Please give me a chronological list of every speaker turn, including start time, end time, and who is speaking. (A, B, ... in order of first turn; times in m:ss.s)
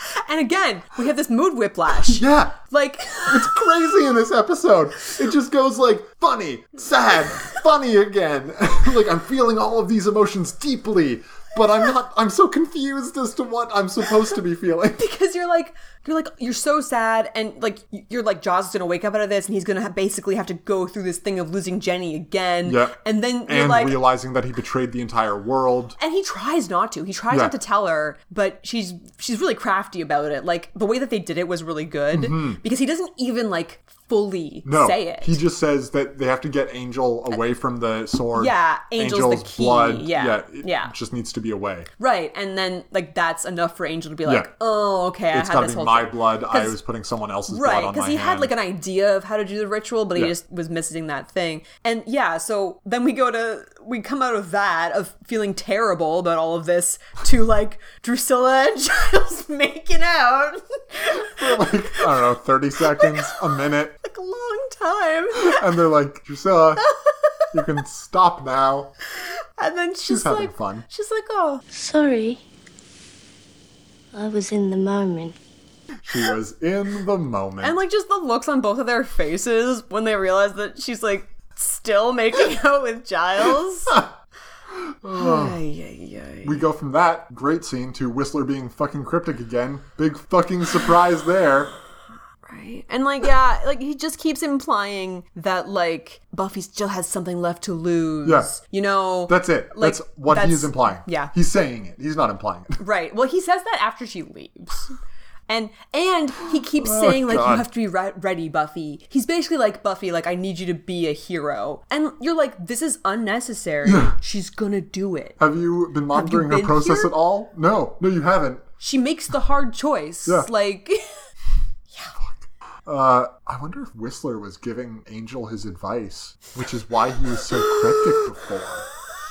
0:00.2-0:03.7 A
0:02.0-0:02.6 B
0:03.2-0:15.0 B
0:15.0-0:24.0 A
0:22.6-0:26.0 B
0:26.0-0:35.4 A
0:32.1-0:32.6 B
0:34.6-0:41.9 B
0:38.3-0:40.9 A
0:42.0-0:46.8 A
0:44.2-0:44.5 B
0:45.3-0:48.5 B
0:47.5-1:02.2 A
1:01.1-1:04.0 B
1:02.8-1:03.4 A
1:04.0-1:05.7 A
1:05.4-1:06.8 B
1:06.8-1:07.3 A
1:07.5-1:08.9 B
1:09.6-1:11.6 A
1:10.0-1:10.8 B
1:11.7-1:12.4 C
1:14.1-1:15.3 C
1:16.0-1:17.8 B
1:17.6-1:24.0 A
1:24.7-1:25.6 B
1:25.1-1:26.6 A
1:26.4-1:31.7 B
1:32.4-1:41.3 A
1:38.2-1:38.5 B
1:39.3-1:42.8 B
1:42.8-1:44.9 A
1:45.5-1:55.4 A
1:46.8-1:47.6 B
1:53.8-1:54.2 B
1:55.4-1:58.6 B
1:56.1-1:57.1 A
1:58.8-2:01.1 A
2:02.2-2:08.8 B
2:07.6-2:08.3 A